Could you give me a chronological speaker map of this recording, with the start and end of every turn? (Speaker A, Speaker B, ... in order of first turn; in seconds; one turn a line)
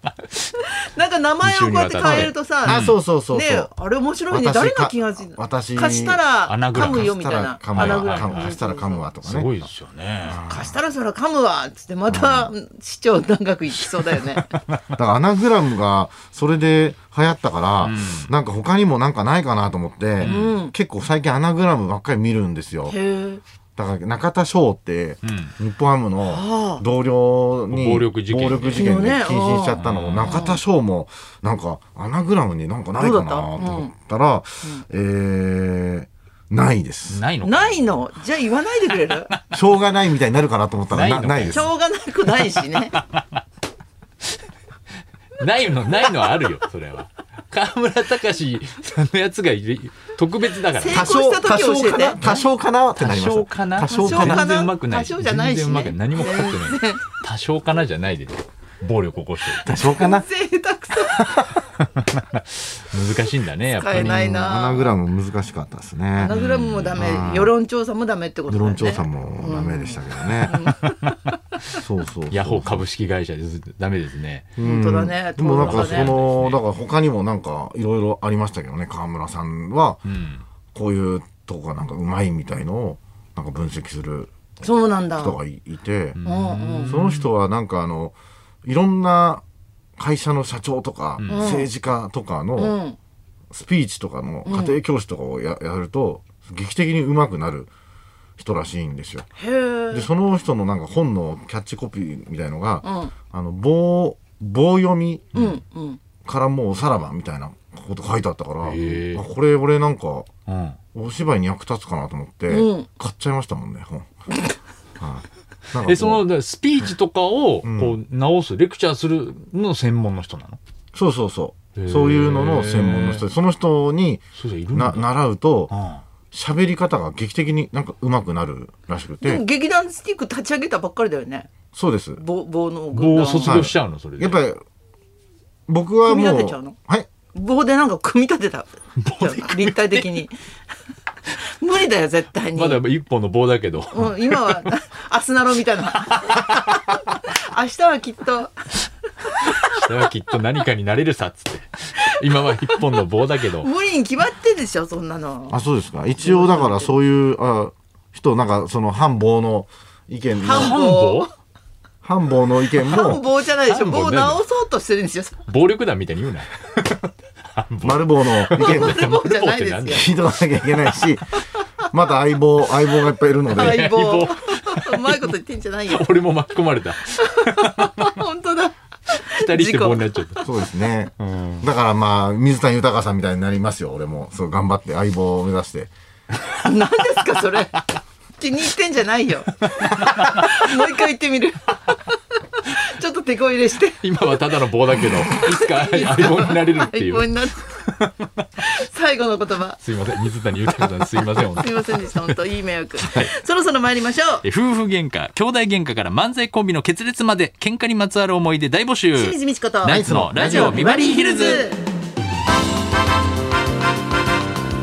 Speaker A: 0.5-9.1
Speaker B: 1.4-3.0
Speaker C: 2.2-3.7
Speaker C: 4.3-9.5
Speaker B: 6.5-7.1
Speaker B: 7.7-8.6
Speaker B: 9.2-10.4
Speaker C: 10.2-10.8
Speaker A: 10.4-14.5
Speaker C: 12.1-12.5
Speaker B: 14.1-14.8
Speaker C: 14.9-22.9
Speaker B: 17.8-18.3
Speaker B: 20.2-20.5
Speaker A: 20.2-20.7
Speaker A: 22.9-23.4
Speaker C: 23.8-37.2
Speaker B: 25.2-25.5
Speaker A: 26.2-26.8
Speaker B: 27.7-29.1
Speaker A: 28.7-30.6
Speaker B: 29.8-30.4
Speaker A: 33.0-33.9
Speaker B: 37.1-38.0
Speaker A: 37.4-39.3
Speaker C: 39.5-41.7
Speaker B: 40.9-41.7
Speaker A: 41.5-43.0
Speaker B: 42.5-43.2
Speaker B: 45.4-51.1
Speaker A: 50.8-52.3
Speaker C: 50.9-54.5
Speaker B: 53.0-59.7
Speaker A: 53.9-57.2
Speaker C: 59.6-60.3
Speaker A: 59.7-61.3
Speaker C: 61.2-61.5
Speaker B: 61.8-64.3
Speaker A: 63.7-64.9
Speaker C: 63.9-66.4
Speaker A: 66.2-70.9
Speaker B: 66.2-67.0
Speaker C: 66.9-67.5
Speaker C: 68.5-70.7
Speaker B: 70.8-71.2
Speaker C: 71.7-72.8
Speaker B: 72.3-74.5
Speaker C: 74.6-80.0
Speaker A: 74.6-76.2
Speaker B: 75.6-76.6
Speaker B: 80.0-80.4
Speaker C: 80.7-84.3
Speaker A: 84.6-85.4
Speaker C: 85.2-86.2
Speaker B: 86.2-87.3
Speaker A: 86.2-86.9
Speaker C: 86.9-89.4
Speaker C: 90.0-92.8
Speaker B: 91.2-91.5
Speaker A: 91.3-91.7
Speaker A: 92.5-93.0
Speaker C: 93.5-97.7
Speaker A: 94.4-94.8
Speaker C: 98.4-99.2
Speaker A: 99.4-100.1
Speaker C: 99.9-105.3
Speaker A: 102.8-103.1
Speaker B: 105.3-105.6
Speaker A: 105.3-106.0
Speaker C: 106.2-110.3
Speaker B: 108.6-109.2
Speaker B: 110.5-110.8
Speaker C: 110.9-114.1
Speaker A: 112.5-112.9
Speaker C: 115.0-116.2
Speaker B: 115.7-120.6
Speaker C: 117.6-118.0
Speaker C: 120.9-125.7
Speaker B: 121.8-123.2
Speaker B: 124.3-125.1
Speaker B: 125.7-126.0
Speaker C: 126.3-129.4
Speaker A: 129.2-131.5
Speaker C: 131.7-132.2
Speaker A: 132.2-133.6
Speaker B: 132.9-134.4
Speaker C: 133.4-134.6
Speaker C: 135.7-137.1
Speaker A: 136.0-136.7
Speaker A: 137.3-140.3
Speaker B: 139.0-140.1
Speaker A: 141.3-142.8
Speaker B: 142.5-144.7
Speaker A: 143.9-148.6
Speaker A: 149.2-149.7
Speaker B: 149.5-153.7
Speaker A: 153.6-155.6
Speaker C: 155.5-160.8
Speaker A: 156.2-156.9
Speaker A: 160.4-161.3
Speaker B: 160.4-161.3
Speaker C: 162.0-163.2
Speaker A: 162.8-165.4
Speaker B: 163.5-164.4
Speaker B: 165.5-170.2
Speaker C: 167.8-169.1
Speaker A: 168.5-170.1
Speaker C: 169.9-171.4
Speaker C: 171.9-173.9
Speaker B: 173.5-175.3
Speaker A: 173.5-176.1
Speaker B: 175.9-178.2
Speaker A: 177.1-180.4
Speaker B: 179.2-180.5
Speaker C: 180.4-185.9
Speaker B: 181.2-181.7
Speaker A: 186.5-187.8
Speaker A: 188.4-194.4
Speaker B: 194.0-197.3
Speaker A: 195.0-197.9
Speaker B: 197.8-198.4
Speaker A: 198.6-199.8
Speaker B: 199.8-202.4
Speaker A: 201.3-204.4
Speaker B: 203.0-203.3
Speaker B: 204.4-211.7
Speaker A: 209.1-211.8
Speaker C: 209.8-210.8